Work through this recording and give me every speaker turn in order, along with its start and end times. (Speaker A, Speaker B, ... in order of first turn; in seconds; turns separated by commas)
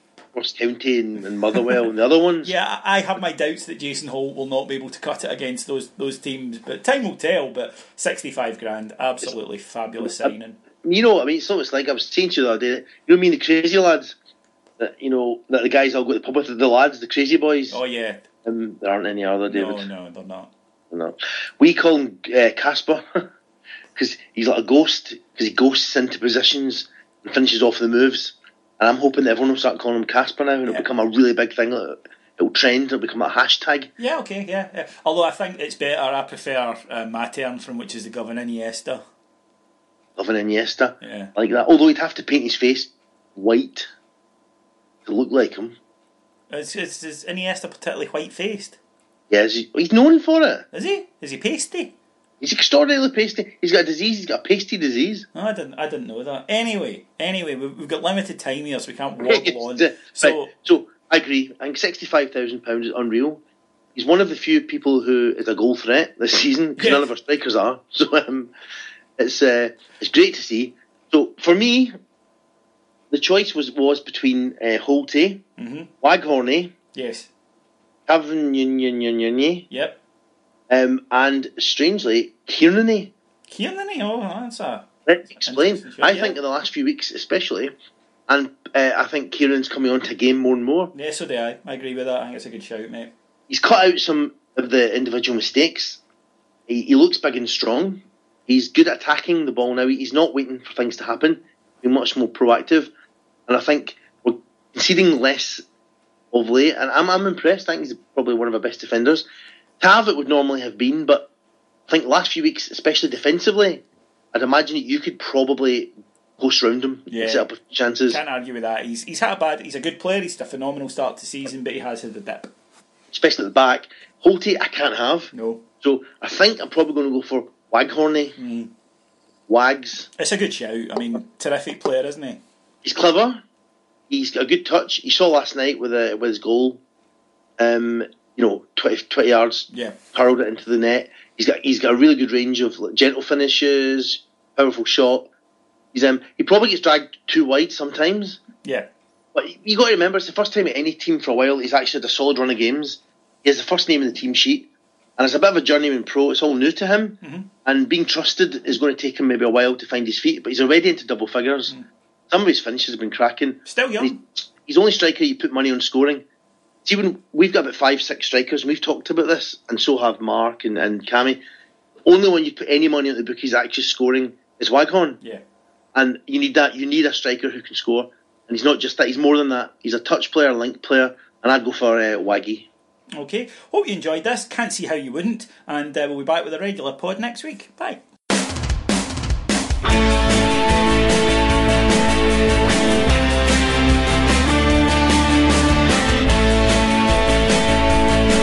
Speaker A: 0.3-2.5, Speaker B: 2.4-10.6, Speaker A: 10.0-14.2, Speaker A: 14.8-17.8, Speaker B: 17.7-18.2, Speaker A: 18.4-19.9, Speaker B: 19.5-20.5, Speaker A: 20.9-23.2, Speaker A: 24.0-33.9, Speaker B: 34.0-39.0, Speaker A: 40.2-43.9, Speaker B: 41.0-41.3, Speaker A: 45.0-45.8, Speaker B: 46.5-48.8, Speaker A: 49.3-50.6, Speaker B: 50.7-51.9, Speaker A: 52.4-55.3, Speaker B: 55.3-60.5, Speaker A: 59.2-63.4, Speaker A: 64.0-68.5, Speaker B: 66.8-67.1, Speaker A: 69.2-71.9, Speaker A: 73.1-75.4, Speaker B: 75.6-75.9, Speaker A: 76.0-76.7, Speaker B: 76.9-77.3, Speaker A: 78.1-79.7, Speaker B: 79.7-80.0, Speaker A: 80.7-83.1, Speaker B: 83.5-86.4, Speaker A: 85.1-87.7, Speaker A: 88.3-90.9, Speaker B: 90.9-93.1, Speaker A: 93.5-96.0, Speaker A: 96.7-102.9, Speaker A: 103.5-105.6, Speaker A: 106.3-109.2, Speaker A: 109.8-111.3, Speaker A: 111.9-118.2, Speaker B: 117.1-117.5, Speaker B: 118.1-122.5, Speaker A: 123.1-128.4, Speaker B: 125.3-125.6, Speaker B: 128.4-128.7, Speaker A: 129.5-130.1, Speaker B: 130.2-132.4, Speaker A: 132.8-133.4, Speaker A: 134.1-136.8, Speaker A: 137.6-145.3, Speaker A: 145.9-148.4, Speaker B: 148.6-148.9, Speaker A: 149.3-154.7, Speaker A: 155.2-161.7, Speaker B: 157.2-157.5, Speaker A: 162.3-166.2, Speaker B: 163.7-164.2, Speaker A: 166.8-171.4, Speaker A: 172.1-175.2, Speaker A: 175.9-182.7, Speaker B: 183.1-188.0